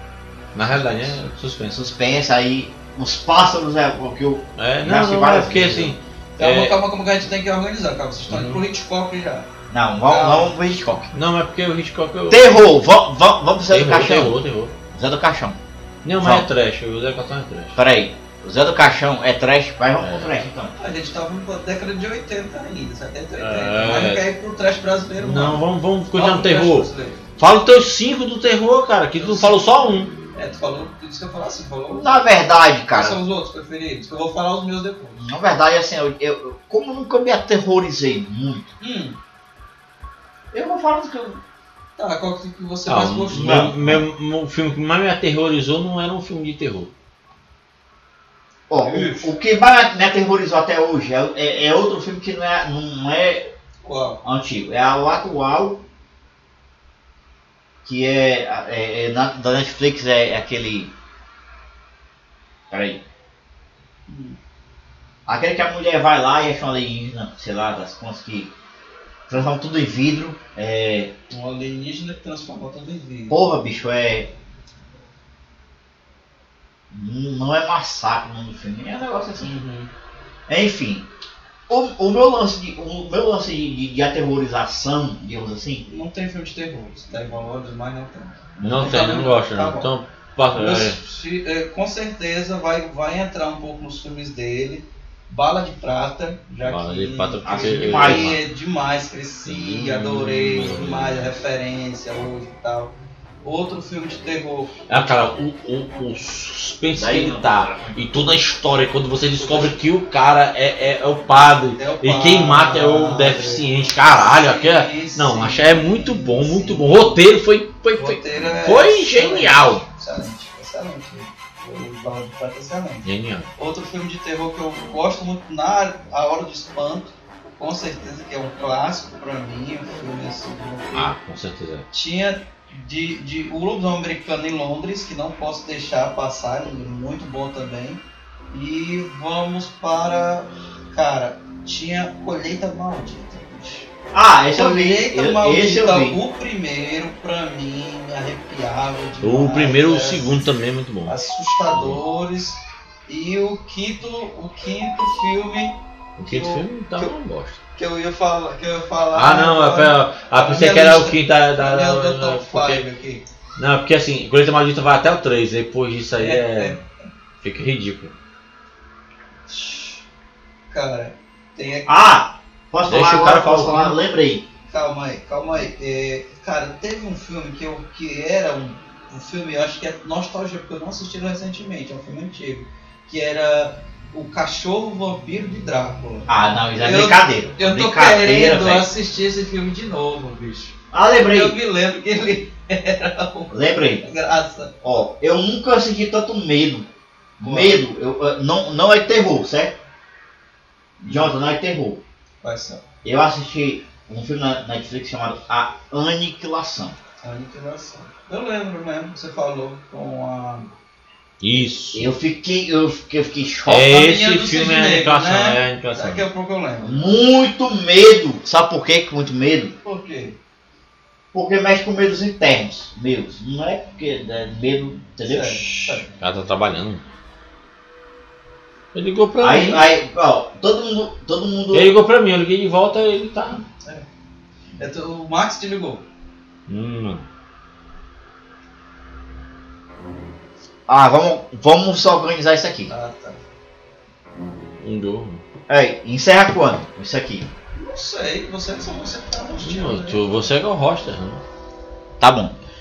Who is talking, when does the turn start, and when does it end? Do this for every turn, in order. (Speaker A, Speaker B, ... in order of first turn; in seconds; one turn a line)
Speaker A: 0.5-1.9
Speaker B: 1.7-6.0
Speaker A: 4.6-6.8
Speaker C: 6.4-9.5
Speaker A: 8.3-8.6
Speaker B: 9.7-11.1
Speaker C: 10.1-10.5
Speaker A: 11.1-12.7
Speaker B: 12.3-14.4
Speaker A: 13.7-14.8
Speaker B: 14.9-15.6
Speaker A: 16.0-17.8
Speaker B: 16.2-16.5
Speaker B: 17.8-20.8
Speaker A: 20.0-20.4
Speaker C: 20.8-25.6
Speaker A: 23.4-24.2
Speaker A: 25.2-30.1
Speaker C: 26.1-27.2
Speaker C: 29.2-32.1
Speaker B: 31.9-33.2
Speaker C: 32.9-35.3
Speaker B: 35.2-38.7
Speaker C: 38.8-39.2
Speaker B: 40.5-41.4
Speaker C: 42.0-43.7
Speaker A: 42.9-46.9
Speaker B: 43.3-44.1
Speaker B: 48.7-53.5
Speaker C: 48.8-49.3
Speaker C: 53.8-54.2
Speaker B: 54.2-55.8
Speaker B: 57.8-60.9
Speaker B: 62.7-63.0
Speaker C: 64.1-64.4
Speaker B: 65.3-68.5
Speaker B: 69.3-71.1
Speaker C: 71.3-73.5
Speaker B: 73.3-74.3
Speaker B: 76.9-79.5
Speaker C: 79.4-79.9
Speaker B: 80.5-81.1
Speaker B: 81.7-85.9
Speaker C: 85.9-89.9
Speaker B: 88.6-88.9
Speaker A: 88.6-91.0
Speaker C: 90.5-104.7
Speaker A: 96.6-98.4
Speaker B: 97.5-98.4
Speaker A: 99.5-101.4
Speaker A: 104.9-119.8
Speaker B: 106.9-108.3
Speaker C: 109.4-109.8
Speaker C: 111.8-113.6
Speaker C: 114.3-117.2
Speaker C: 118.0-123.1
Speaker A: 123.0-123.5
Speaker C: 123.6-131.1
Speaker A: 130.9-131.9
Speaker C: 131.9-143.9
Speaker B: 144.1-146.2
Speaker C: 144.5-150.3
Speaker A: 149.2-151.1
Speaker C: 151.1-157.1
Speaker A: 151.7-152.0
Speaker A: 156.2-157.6
Speaker C: 157.8-163.2
Speaker A: 159.1-162.9
Speaker A: 163.6-166.8
Speaker C: 166.2-166.8
Speaker A: 167.4-168.1
Speaker C: 169.5-170.0
Speaker C: 170.7-172.0
Speaker B: 171.9-174.5
Speaker A: 172.9-174.0
Speaker C: 174.7-194.7
Speaker B: 186.3-188.9
Speaker B: 190.9-191.6
Speaker B: 193.5-194.1
Speaker B: 194.8-199.8
Speaker C: 197.4-197.8
Speaker B: 201.0-202.0
Speaker C: 202.4-202.8
Speaker B: 203.0-207.0
Speaker C: 207.2-210.7
Speaker A: 211.4-212.1
Speaker B: 211.9-214.0
Speaker A: 213.7-216.3
Speaker C: 213.9-217.2
Speaker B: 216.8-219.8
Speaker C: 219.8-220.4
Speaker B: 221.3-226.0
Speaker C: 225.2-226.1
Speaker A: 226.1-227.0
Speaker A: 228.9-229.9
Speaker B: 229.4-231.9
Speaker A: 231.7-233.6
Speaker C: 234.8-236.1
Speaker A: 236.7-237.2
Speaker B: 240.9-242.9
Speaker C: 242.9-243.4
Speaker A: 244.5-245.4
Speaker B: 245.7-247.5
Speaker C: 247.8-250.2
Speaker A: 249.6-251.4
Speaker B: 252.2-252.6